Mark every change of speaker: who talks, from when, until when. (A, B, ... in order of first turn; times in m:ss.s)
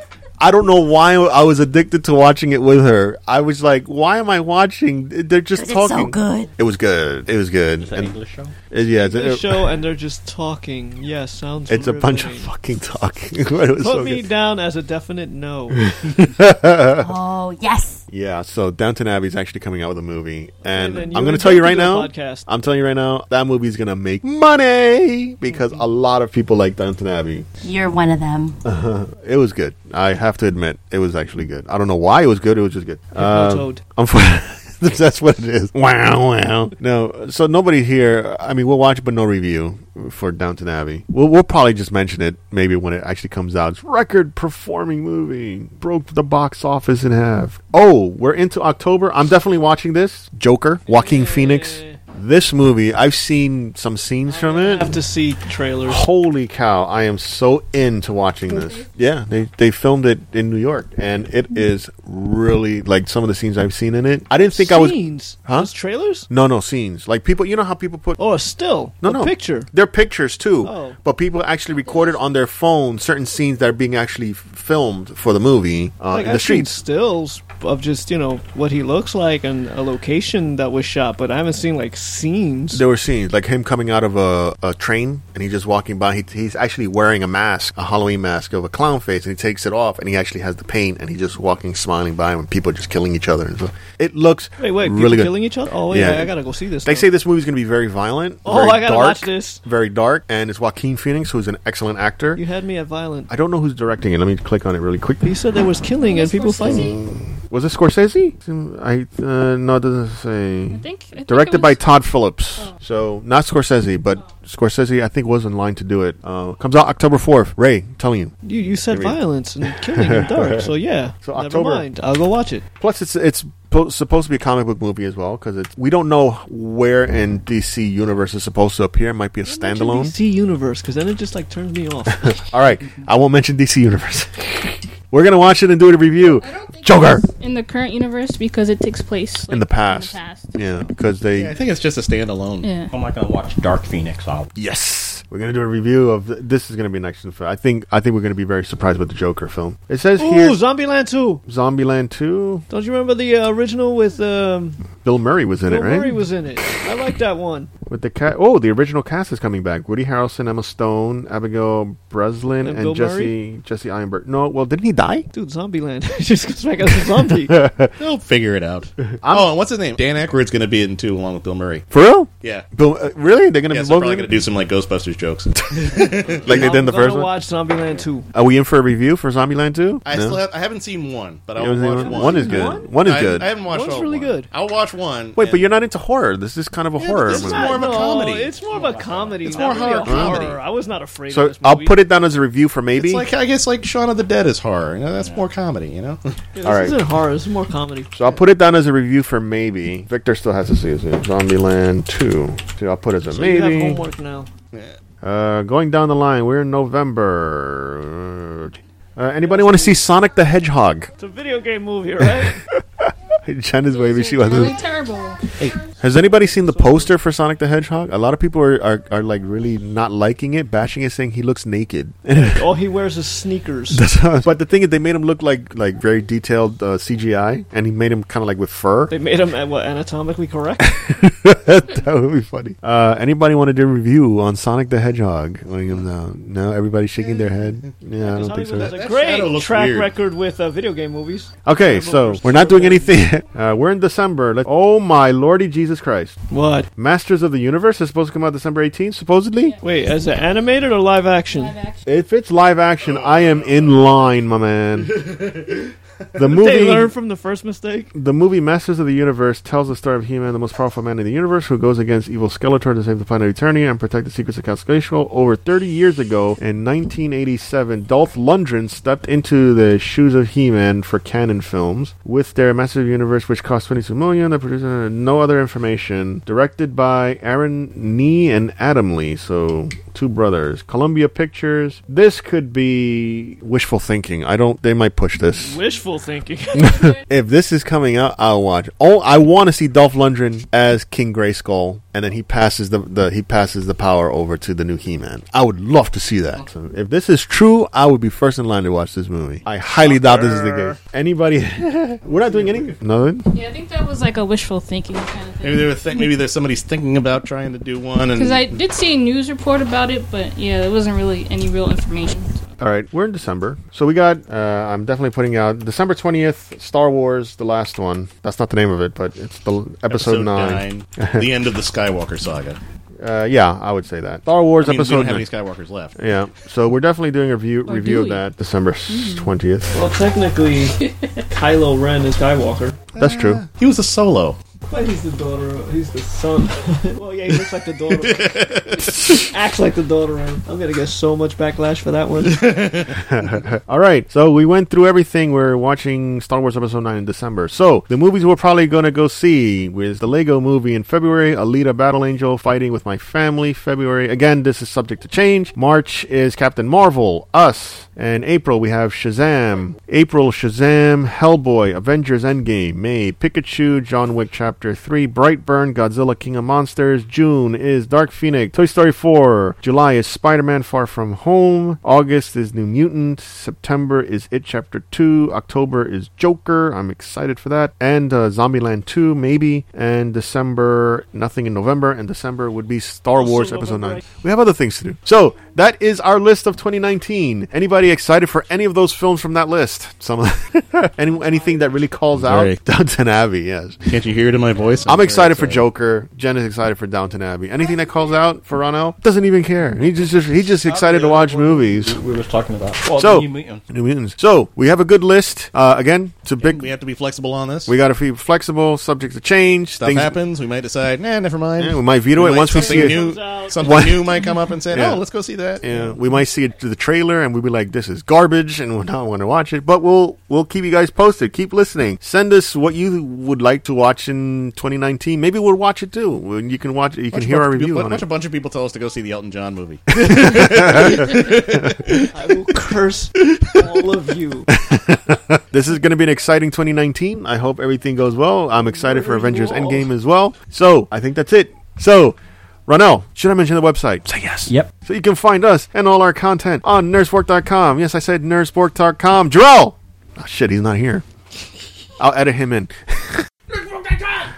0:00.4-0:08.2 A
0:05.6-0:06.5 B
0:07.8-0:08.5 C
0:08.7-0:09.7 A
0:09.0-0:12.5 D
0:11.7-0:14.3 A
0:13.8-0:15.8 D
0:15.8-0:17.1 A
0:16.9-0:18.0 B
0:18.1-0:27.5 A
0:20.7-0:22.5 D
0:27.6-0:28.6 B
0:28.6-0:55.0 A
0:33.2-0:33.8 D
0:50.9-0:52.0 D
0:54.3-0:56.0 D
0:55.9-1:05.7 A
0:58.6-0:58.8 E
1:04.4-1:06.3 D
1:06.3-1:08.2 A
1:08.2-1:09.7 D
1:09.0-1:16.7 A
1:10.6-1:11.0 D
1:16.1-1:22.8 D
1:22.7-1:35.4 A
1:34.6-1:37.1 D
1:35.9-1:42.4 A
1:38.4-1:39.6 D
1:42.4-1:43.3 D
1:43.3-1:45.3 A
1:45.2-1:47.0 D
1:46.0-1:47.0 E
1:46.6-1:58.3 A
1:50.7-1:51.8 E
1:58.4-2:02.6 D
1:58.9-2:00.7 A
2:01.2-2:01.9 A
2:02.8-2:10.2 A
2:09.4-2:12.4 D
2:12.2-2:17.2 A
2:16.3-2:20.6 E
2:19.5-2:21.6 A
2:21.3-2:22.7 F
2:22.6-2:22.9 E
2:22.9-2:24.5 C
2:24.6-2:30.6 A
2:30.2-2:31.4 D
2:31.5-2:32.6 A
2:32.7-2:34.8 D
2:35.0-2:36.1 A
2:35.7-2:37.7 D
2:37.9-2:45.3 A
2:42.6-2:43.4 D
2:45.3-2:47.6 D
2:47.3-2:48.0 A
2:48.0-2:51.9 F
2:49.1-2:49.5 A
2:51.9-2:54.5 A
2:53.7-2:56.7 F
2:55.7-2:57.3 A
2:56.5-2:58.3 D
2:58.3-3:00.4 A
3:00.1-3:05.7 F
3:01.6-3:03.5 A
3:02.0-3:02.9 D
3:03.6-3:04.5 D
3:05.4-3:07.8 A
3:07.0-3:08.5 F
3:07.3-3:12.0 D
3:08.7-3:10.4 C
3:09.5-3:10.6 F
3:10.1-3:10.4 A
3:11.3-3:13.3 A
3:13.0-3:16.4 F
3:15.2-3:15.5 C
3:16.5-3:18.1 D
3:16.6-3:17.0 A
3:18.1-3:24.0 A
3:23.3-3:24.5 D
3:24.7-3:25.0 F
3:25.2-3:31.1 A
3:29.4-3:30.0 D
3:31.2-3:32.6 D
3:32.2-3:34.8 A
3:33.9-3:35.5 E
3:36.0-3:42.7 A
3:36.5-3:37.1 D
3:42.3-3:44.0 D
3:43.9-3:49.1 A
3:49.1-3:51.1 D
3:50.8-3:58.9 A
3:57.2-3:57.9 F
3:58.2-4:03.2 D
3:58.8-4:00.1 F
4:01.6-4:06.4 A
4:06.5-4:06.9 D
4:07.0-4:09.8 A
4:09.7-4:10.3 E
4:09.8-4:11.8 D
4:11.5-4:12.0 E
4:12.1-4:15.2 A
4:13.0-4:14.3 F
4:15.1-4:15.9 F
4:16.4-4:17.1 A
4:16.4-4:18.1 D
4:18.1-4:45.8 A
4:45.6-4:47.1 D
4:46.8-5:03.5 A
5:00.0-5:01.0 F
5:02.4-5:03.0 F
5:03.5-5:06.3 E
5:05.6-5:08.8 F
5:08.4-5:12.5 E
5:12.8-5:21.5 A
5:20.1-5:22.8 F
5:23.2-5:25.5 A
5:24.8-5:26.2 F
5:26.2-5:29.9 A
5:27.9-5:28.4 E
5:29.1-5:29.5 E
5:29.9-5:33.0 D
5:33.2-5:33.6 A
5:33.2-5:34.6 F
5:34.9-5:38.6 D
5:38.1-5:39.4 F
5:39.2-5:42.7 D
5:42.4-5:43.2 F
5:43.1-6:34.2 A
6:23.4-6:24.2 D
6:32.4-6:32.8 F
6:34.1-6:35.8 F
6:35.0-6:42.2 A
6:40.7-6:43.8 C
6:43.0-6:46.9 A
6:46.6-6:47.9 F
6:47.9-6:50.4 A
6:50.0-6:55.8 F
6:51.8-6:53.2 A
6:52.7-6:54.0 D
6:53.8-6:55.2 A
6:55.8-7:08.2 A
7:07.3-7:12.3 F
7:10.2-7:12.0 A
7:12.3-7:14.7 D
7:14.7-7:31.2 A
7:18.9-7:20.1 D
7:32.2-7:34.4 A